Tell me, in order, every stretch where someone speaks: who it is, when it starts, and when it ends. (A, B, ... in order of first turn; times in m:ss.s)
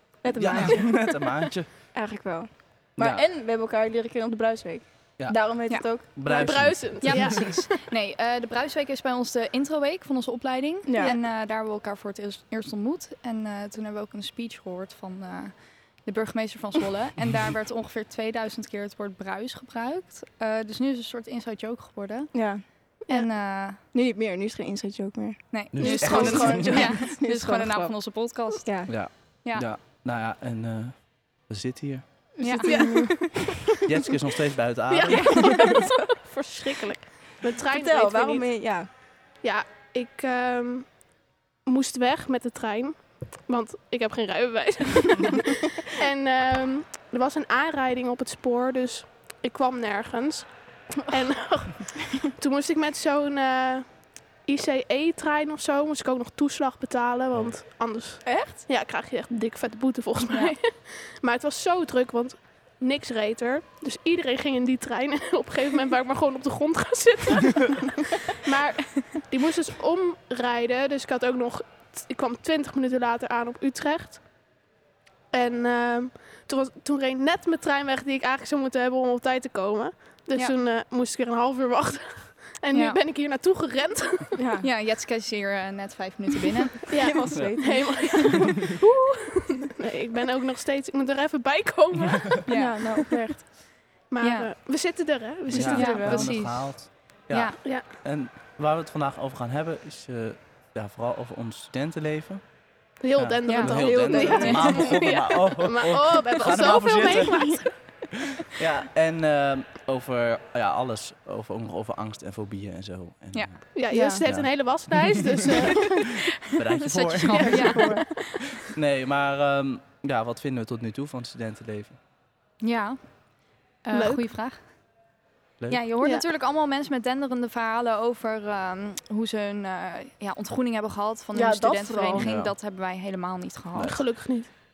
0:00.2-0:01.3 A
0:00.4-0:01.7 B
0:01.9-0:06.6 A
0:03.0-0:03.2 B
0:05.2-0:05.5 B
0:06.2-0:07.5 B
0:06.3-0:07.8 C
0:07.0-0:22.3 D
0:10.8-0:11.2 A
0:22.3-0:22.6 A
0:23.1-0:23.8 D
0:23.9-0:28.0 A
0:25.5-0:28.9 D
0:25.7-0:27.0 B
0:25.9-0:26.9 C
0:28.5-0:28.9 A
0:28.9-0:32.3 B
0:32.4-0:33.6 A
0:32.4-0:32.9 D
0:32.6-0:33.7 C
0:33.8-0:35.8 B
0:34.9-0:38.5 C
0:35.1-0:36.1 A
0:37.7-0:38.9 A
0:39.4-0:41.0 C
0:41.6-1:14.3 C
0:58.2-0:58.7 A
1:15.3-1:24.4 C
1:22.7-1:23.0 D
1:24.4-1:24.7 A
1:24.6-1:26.9 D
1:26.9-1:32.5 C
1:26.9-1:28.7 A
1:27.3-1:27.6 B
1:32.4-1:33.0 D
1:32.5-1:33.5 A
1:34.1-1:36.0 C
1:34.2-1:34.5 D
1:35.5-1:42.4 B
1:35.6-1:36.3 A
1:35.7-1:37.6 D
1:43.0-1:47.7 C
1:43.2-1:55.3 B
1:43.5-1:44.7 D
1:43.6-1:45.0 A
1:53.3-1:54.2 D
1:53.8-1:56.2 C
1:56.4-2:02.0 B
1:56.8-1:58.3 D
1:57.3-1:58.1 C
1:57.4-1:58.1 A
2:02.6-2:03.0 D
2:03.8-2:04.6 D
2:03.9-2:04.2 C
2:05.7-2:14.0 D
2:06.0-2:06.3 C
2:11.3-2:12.3 A
2:12.2-2:12.6 B
2:13.8-2:14.5 C